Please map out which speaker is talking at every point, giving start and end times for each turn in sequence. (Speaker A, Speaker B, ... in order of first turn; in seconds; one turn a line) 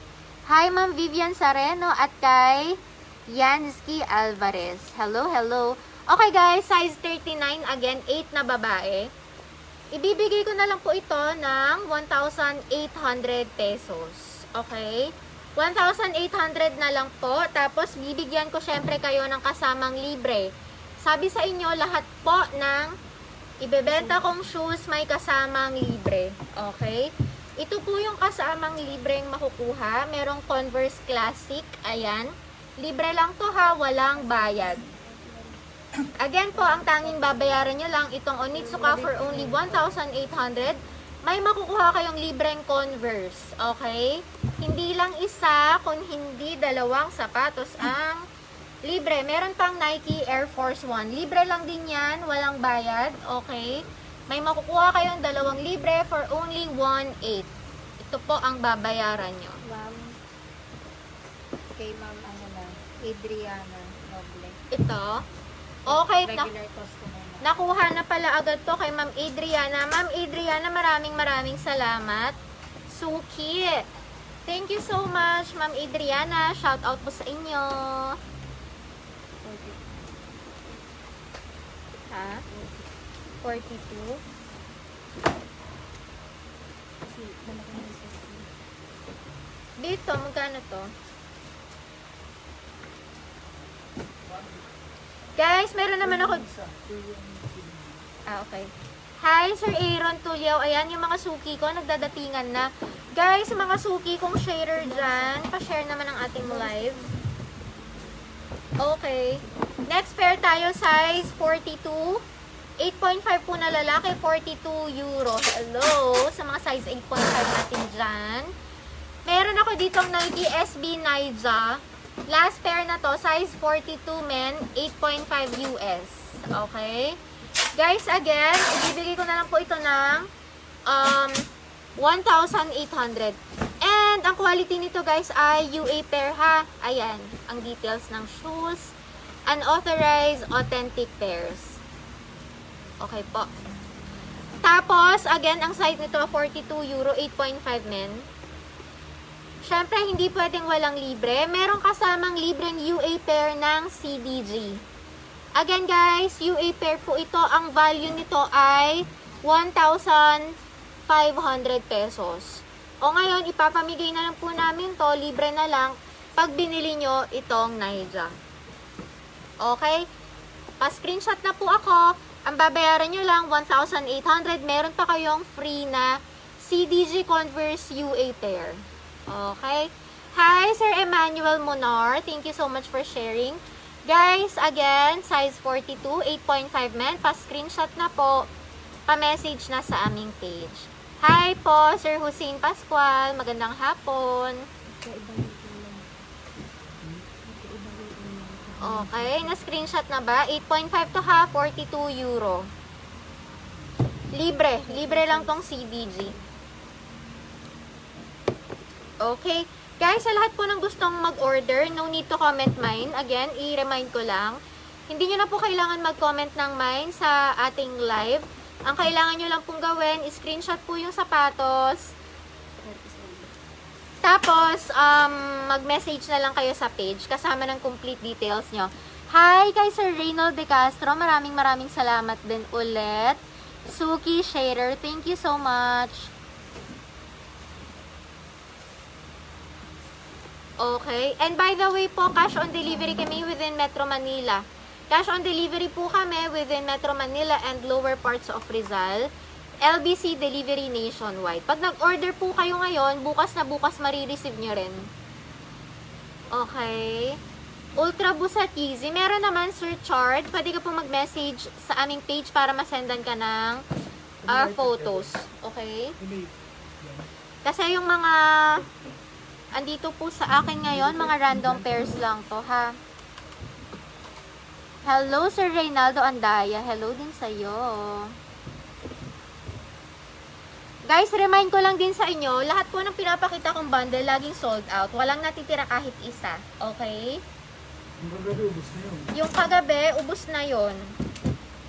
Speaker A: 0.5-9.1
Speaker A: 9.9-23.0
Speaker A: 23.6-34.8
Speaker B: 23.9-24.5
Speaker B: 34.1-35.6
Speaker A: 36.2-48.2
Speaker B: 36.5-37.7
Speaker B: 38.5-40.0
Speaker A: 48.8-57.5
Speaker A: 58.0-59.6
Speaker B: 59.6-60.2
Speaker B: 61.8-64.6
Speaker A: 64.7-65.2
Speaker B: 65.9-67.5
Speaker A: 65.9-66.5
Speaker A: 67.4-72.3
Speaker A: 72.9-73.8
Speaker A: 74.5-78.2
Speaker B: 79.4-79.8
Speaker A: 82.1-82.4
Speaker B: 82.5-82.9
Speaker A: 83.4-84.2
Speaker B: 87.0-88.5
Speaker A: 89.8-90.9
Speaker C: 94.2-94.8
Speaker A: 95.4-96.4
Speaker C: 96.0-98.0
Speaker A: 98.3-107.0
Speaker B: 104.8-105.4
Speaker B: 106.4-107.1
Speaker A: 108.8-112.2
Speaker A: 112.8-118.5
Speaker A: 119.2-127.2
Speaker A: 127.8-130.3
Speaker A: 130.9-131.4
Speaker A: 132.0-138.9
Speaker A: 139.5-141.8
Speaker A: 143.0-143.5
Speaker A: 144.6-148.2
Speaker A: 149.7-154.8
Speaker A: 155.6-160.5
Speaker A: 161.1-168.3
Speaker A: 169.6-170.1
Speaker A: 170.8-188.5
Speaker A: 189.1-194.7
Speaker B: 195.0-196.1
Speaker B: 197.4-199.6
Speaker A: 198.8-202.7
Speaker A: 204.3-206.3
Speaker B: 204.8-206.5
Speaker A: 209.2-214.6
Speaker A: 215.1-222.1
Speaker B: 222.8-223.5
Speaker A: 224.2-236.3
Speaker A: 240.8-249.3
Speaker A: 249.8-255.1
Speaker A: 256.5-257.4
Speaker A: 258.0-263.8
Speaker C: 264.4-265.4
Speaker A: 264.5-266.1
Speaker C: 266.2-267.3
Speaker A: 267.7-268.9
Speaker C: 268.9-269.2
Speaker A: 269.8-272.9
Speaker C: 270.9-272.2
Speaker A: 275.1-278.3
Speaker A: 281.1-287.4
Speaker C: 288.2-289.3
Speaker A: 289.3-291.1